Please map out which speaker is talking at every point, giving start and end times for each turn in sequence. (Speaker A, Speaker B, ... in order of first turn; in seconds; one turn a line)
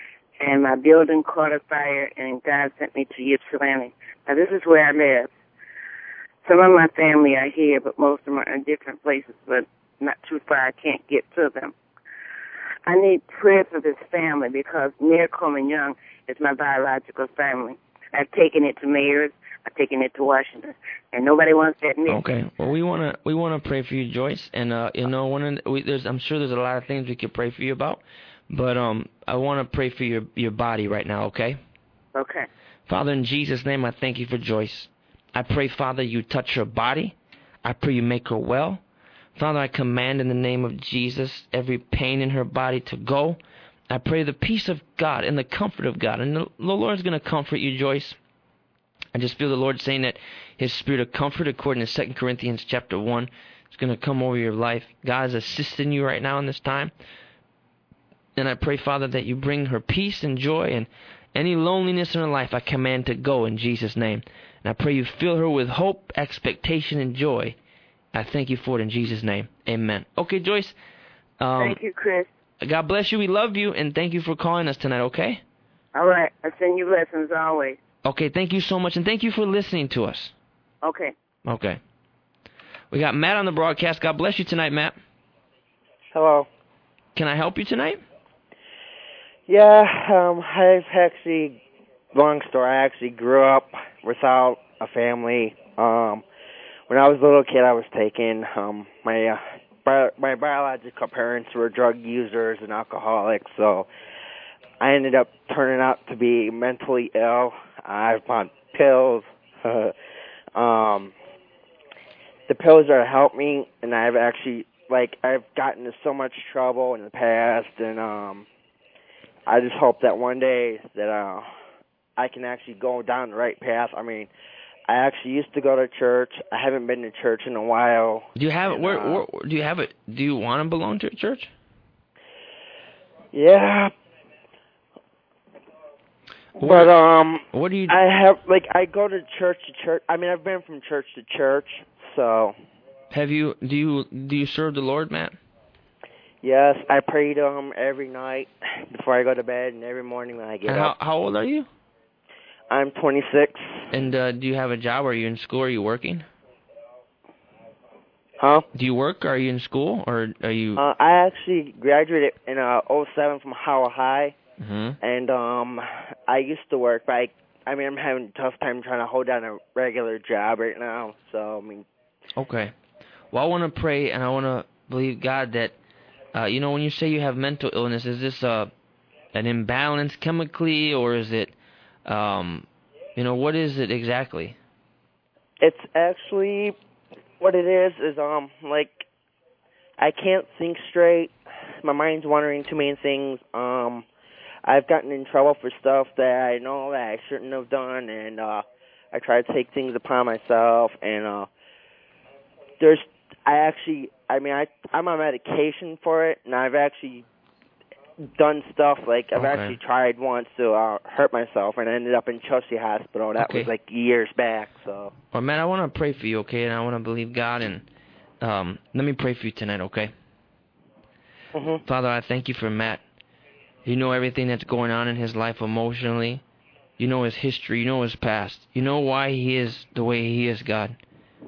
Speaker A: 0.4-5.3
Speaker A: 6.4-11.7
Speaker A: 12.8-22.2
Speaker B: 22.1-31.6
Speaker A: 32.1-32.5
Speaker B: 32.9-38.8
Speaker B: 39.4-43.4
Speaker B: 43.9-48.2
Speaker B: 49.1-56.9
Speaker B: 58.4-67.5
Speaker B: 68.1-70.7
Speaker B: 71.4-71.8
Speaker A: 71.6-72.3
Speaker B: 72.6-75.4
Speaker A: 75.9-77.8
Speaker B: 78.0-80.3
Speaker A: 80.8-81.1
Speaker B: 81.5-81.8
Speaker B: 82.9-85.0
Speaker C: 86.1-86.5
Speaker B: 87.1-88.0
Speaker C: 89.5-91.6
Speaker C: 92.1-96.2
Speaker C: 96.9-103.9
Speaker C: 104.8-109.9
Speaker C: 110.5-111.1
Speaker C: 112.5-118.5
Speaker C: 119.5-121.5
Speaker C: 122.2-124.3
Speaker C: 124.9-129.2
Speaker B: 128.3-131.5
Speaker C: 133.3-133.9
Speaker C: 136.6-142.6
Speaker B: 136.6-136.9
Speaker B: 137.5-138.0
Speaker B: 143.1-145.3
Speaker C: 146.4-150.9
Speaker B: 150.7-151.7
Speaker C: 152.7-153.9
Speaker B: 153.9-156.2
Speaker C: 158.4-158.7
Speaker B: 158.7-160.8
Speaker C: 160.8-164.4
Speaker B: 164.6-165.0
Speaker C: 165.0-171.8
Speaker B: 172.4-172.7
Speaker B: 173.3-175.7
Speaker B: 176.3-178.7
Speaker B: 179.3-181.5
Speaker B: 182.1-184.6
Speaker C: 185.6-186.8
Speaker C: 187.4-189.0
Speaker C: 190.0-194.1
Speaker C: 194.6-201.5
Speaker C: 202.8-207.2
Speaker C: 208.2-215.1
Speaker B: 209.3-209.8
Speaker B: 213.4-213.7
Speaker B: 215.3-217.9
Speaker B: 218.4-220.1
Speaker C: 221.5-221.8
Speaker B: 221.8-223.0
Speaker B: 223.8-226.4
Speaker B: 227.0-231.0